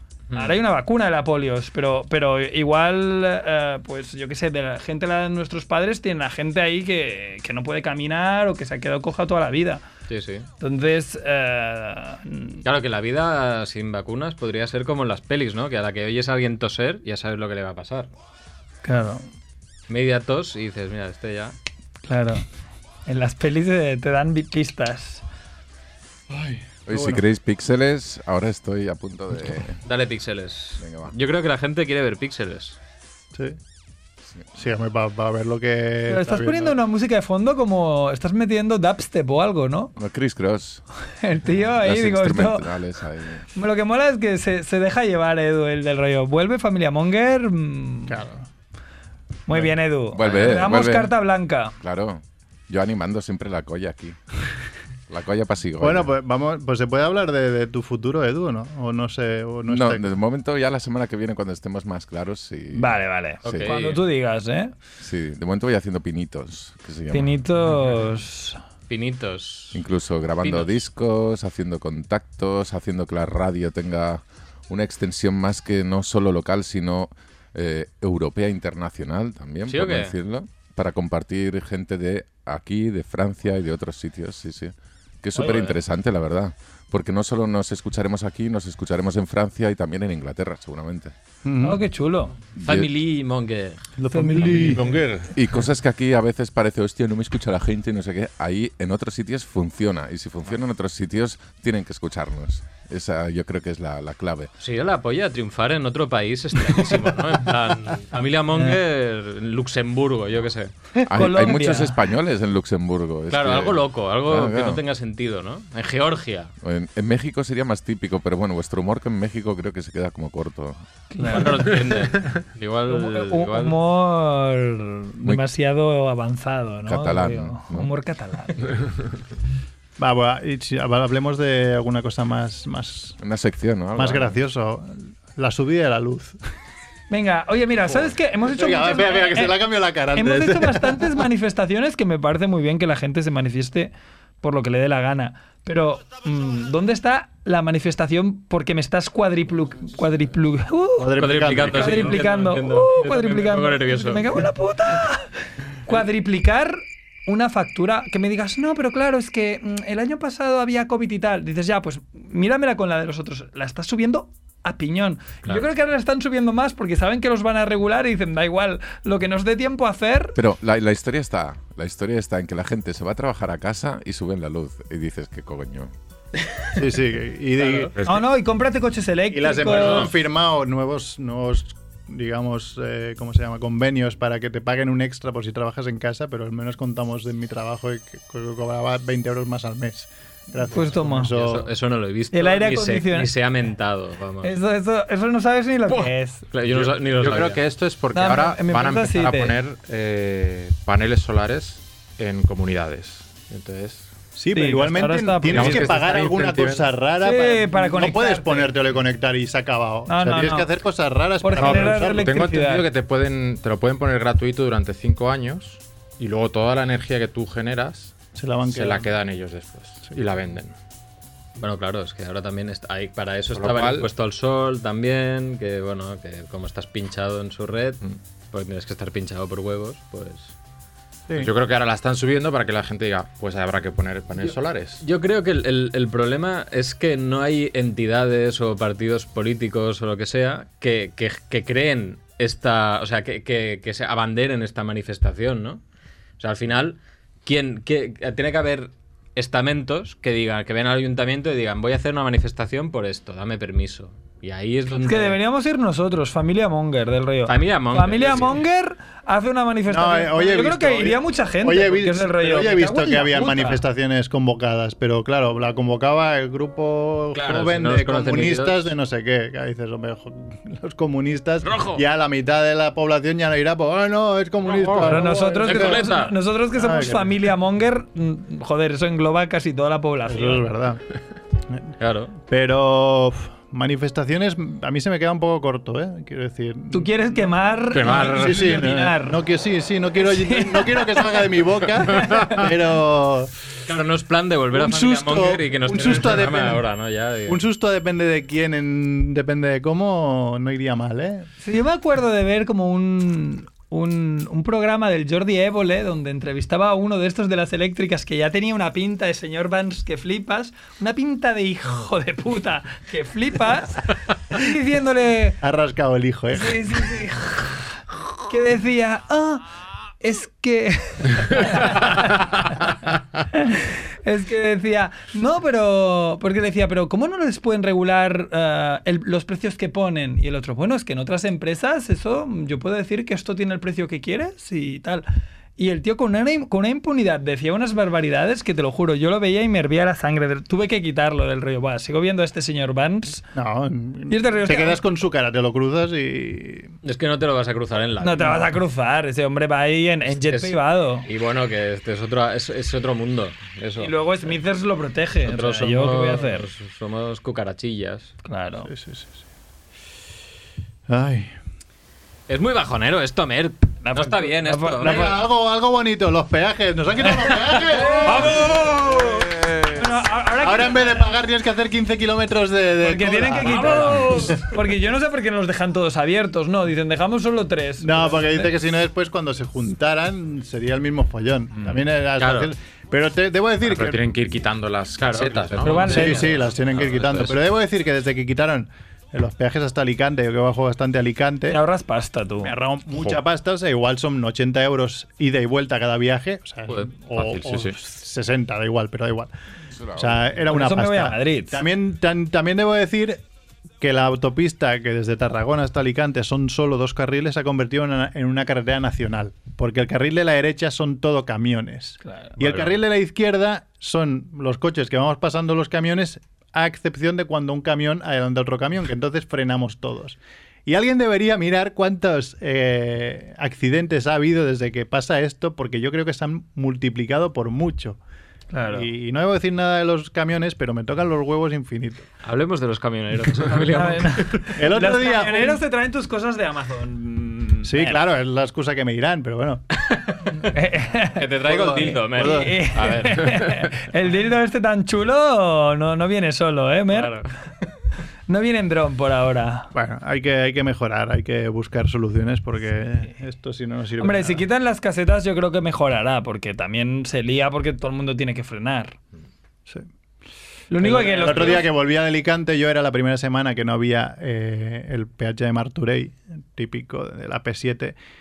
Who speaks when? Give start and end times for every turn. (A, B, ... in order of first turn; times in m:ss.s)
0:00.3-0:00.6 A
0:00.3-0:09.8 B
0:10.1-0:10.5 A
0:10.6-0:12.6 B
0:12.6-0:18.1 A
0:18.8-0:19.2 B
0:19.9-0:21.5 A
0:22.1-0:22.4 B
0:23.0-0:25.2 B
0:26.3-0:27.2 C
0:26.9-0:29.8 D
0:29.8-0:32.8 A
0:30.8-0:31.1 D
0:33.3-0:33.6 C
0:34.5-0:36.8 C
0:36.1-0:39.9 B
0:40.0-0:40.8 D
0:41.2-0:42.7 B
0:41.7-0:43.5 D
0:43.5-0:48.2 B
0:48.1-0:48.5 C
0:49.5-0:51.7 B
0:50.1-0:51.1 D
0:51.8-0:54.2 D
0:55.1-0:56.1 D
0:55.8-1:00.1 C
0:59.7-1:03.0 D
1:02.7-1:04.7 B
1:03.4-1:04.0 A
1:05.0-1:07.4 D
1:07.1-1:08.6 B
1:08.9-1:09.8 A
1:09.7-1:31.1 D
1:10.4-1:10.7 A
1:19.7-1:20.2 A
1:25.4-1:25.7 A
1:31.4-1:31.8 C
1:31.6-1:32.3 B
1:32.6-1:32.9 D
1:32.6-1:33.8 A
1:34.0-1:34.9 C
1:34.1-1:34.8 B
1:34.6-1:35.3 E
1:35.3-1:44.5 D
1:44.6-1:50.7 A
1:51.0-1:54.8 D
1:51.1-1:52.0 B
1:53.3-1:56.5 A
1:56.6-2:00.8 D
2:01.1-2:01.8 B
2:01.3-2:03.8 A
2:02.9-2:08.7 B
2:06.9-2:07.9 D
2:10.0-2:13.2 C
2:13.2-2:14.4 D
2:14.0-2:16.4 C
2:17.1-2:35.3 B
2:18.4-2:21.2 C
2:31.0-2:32.2 C
2:31.1-2:34.4 A
2:35.8-2:50.4 B
2:50.4-2:55.9 D
2:56.8-2:57.9 C
2:58.0-3:00.1 B
2:59.3-3:11.7 C
2:59.7-3:00.1 A
3:10.7-3:11.3 B
3:11.2-3:14.5 A
3:12.3-3:13.3 B
3:14.4-3:16.4 B
3:16.5-3:17.6 A
3:16.6-3:24.1 E
3:18.1-3:19.6 B
3:24.3-3:32.3 C
3:24.5-3:26.0 B
3:25.5-3:26.9 E
3:27.2-3:28.7 B
3:30.1-3:30.7 B
3:31.4-3:32.8 B
3:31.6-3:38.2 E
3:38.3-3:39.1 C
3:38.7-3:40.7 E
3:41.6-3:50.5 A
3:43.5-3:44.1 E
3:51.3-3:55.0 E
3:55.0-4:05.8 A
4:06.4-4:15.4 A
4:15.0-4:23.8 B
4:17.5-4:18.6 A
4:19.9-4:36.1 C
4:27.3-4:28.9 A
4:31.6-4:32.0 A
4:34.6-4:36.4 A
4:35.0-4:40.7 B
4:36.7-4:37.4 C
4:40.2-4:41.0 C
4:42.0-4:42.4 A
4:42.5-4:47.5 C
4:46.9-4:49.4 B
4:47.9-4:48.7 E
4:48.0-4:53.5 C
4:50.2-4:51.4 B
4:52.1-4:52.6 B
4:53.8-4:57.6 A
4:54.7-4:56.8 C
4:57.5-5:01.5 C
5:01.6-5:15.6 B
5:15.6-5:17.0 C
5:16.5-5:17.9 B
5:18.5-5:19.6 B
5:20.2-5:22.9 B
5:23.5-5:35.2 B
5:35.8-5:43.4 B
5:43.5-5:46.9 C
5:44.3-5:45.0 B
5:47.0-5:48.7 A
5:48.2-5:51.2 B
5:50.4-5:54.1 A
5:54.0-5:56.7 B
5:55.4-5:58.3 A
5:58.4-5:58.9 B
5:58.8-5:59.4 C
6:01.1-6:01.5 C
6:02.5-6:05.4 A
6:04.0-6:05.4 B
6:05.0-6:09.9 C
6:07.4-6:09.0 B
6:09.9-6:11.3 B
6:10.6-6:14.7 C
6:13.0-6:18.7 B
6:18.0-6:24.3 C
6:22.4-6:22.7 A
6:23.8-6:26.3 E
6:25.2-6:27.6 A
6:25.8-6:26.5 B
6:26.1-6:31.8 C
6:31.7-6:32.7 B
6:32.6-6:39.5 C
6:37.4-6:37.9 E
6:40.0-6:40.4 D
6:40.2-6:43.4 C
6:40.7-6:41.8 B
6:44.0-7:08.2 C
6:52.2-6:52.7 B
7:08.7-7:09.1 B
7:08.9-7:12.2 C
7:12.4-7:14.7 A
7:13.9-7:18.2 B
7:14.7-7:15.8 C
7:17.8-7:19.8 C
7:20.7-7:27.3 B
7:21.4-7:23.8 A
7:21.6-7:22.9 C
7:27.1-7:27.5 A
7:28.5-7:29.9 B
7:29.9-7:34.6 C
7:34.2-7:39.2 B
7:40.9-7:41.9 B
7:41.0-7:48.1 C